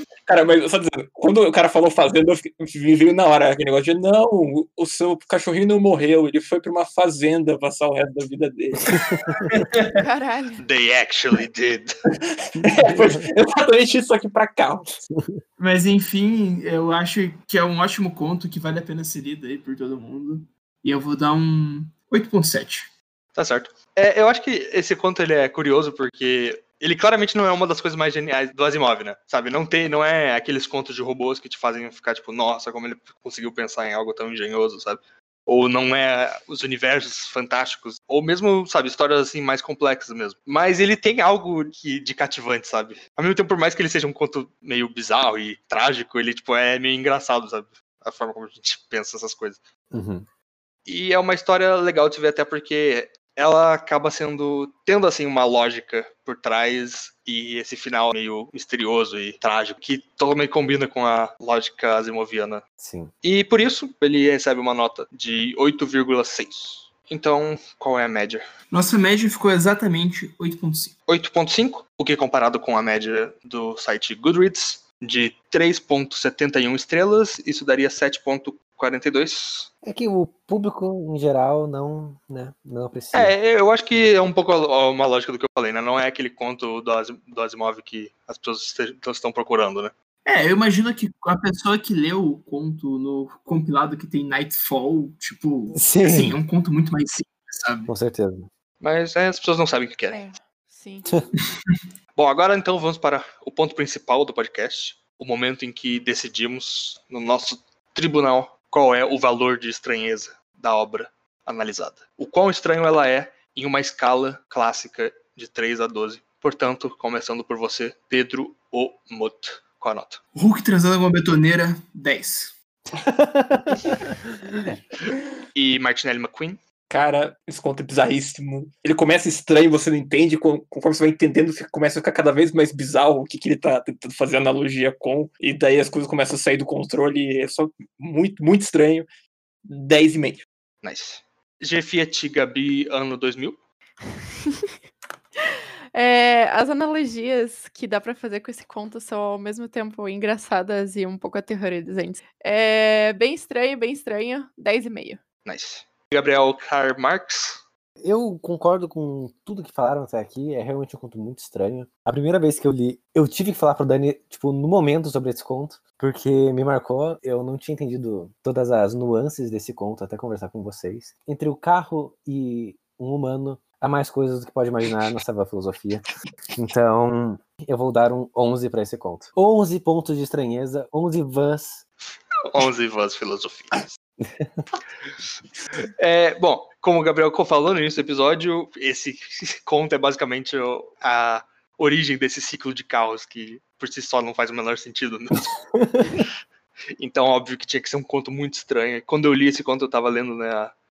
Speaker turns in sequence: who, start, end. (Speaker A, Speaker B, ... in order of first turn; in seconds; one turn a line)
Speaker A: 0.2-9.3
Speaker B: 8.9-9.4
Speaker C: 9.6-9.9
Speaker D: 9.9-10.6
Speaker E: 10.6-12.0
Speaker A: 12.3-14.9
Speaker B: 12.6-13.3
Speaker C: 15.6-22.9
Speaker E: 23.4-49.6
Speaker B: 49.9-50.2
Speaker E: 50.9-62.6
Speaker B: 62.8-63.1
Speaker E: 63.2-68.4
Speaker C: 68.7-70.9
Speaker E: 71.1-79.7
Speaker B: 79.8-83.3
Speaker E: 83.1-89.9
Speaker C: 90.2-97.9
Speaker B: 95.7-96.4
Speaker B: 97.9-98.5
Speaker E: 98.8-100.2
Speaker D: 100.1-101.2
Speaker E: 102.2-120.2
Speaker C: 120.3-122.5
Speaker B: 122.9-124.7
Speaker E: 125.5-126.6
Speaker A: 126.9-139.1
Speaker A: 139.7-140.4
Speaker E: 140.8-143.6
Speaker D: 145.9-155.2
Speaker E: 155.4-157.6
Speaker B: 158.0-181.8
Speaker E: 182.4-183.9
Speaker B: 184.2-184.6
Speaker E: 186.0-195.5
Speaker B: 195.9-196.2
Speaker E: 197.0-200.7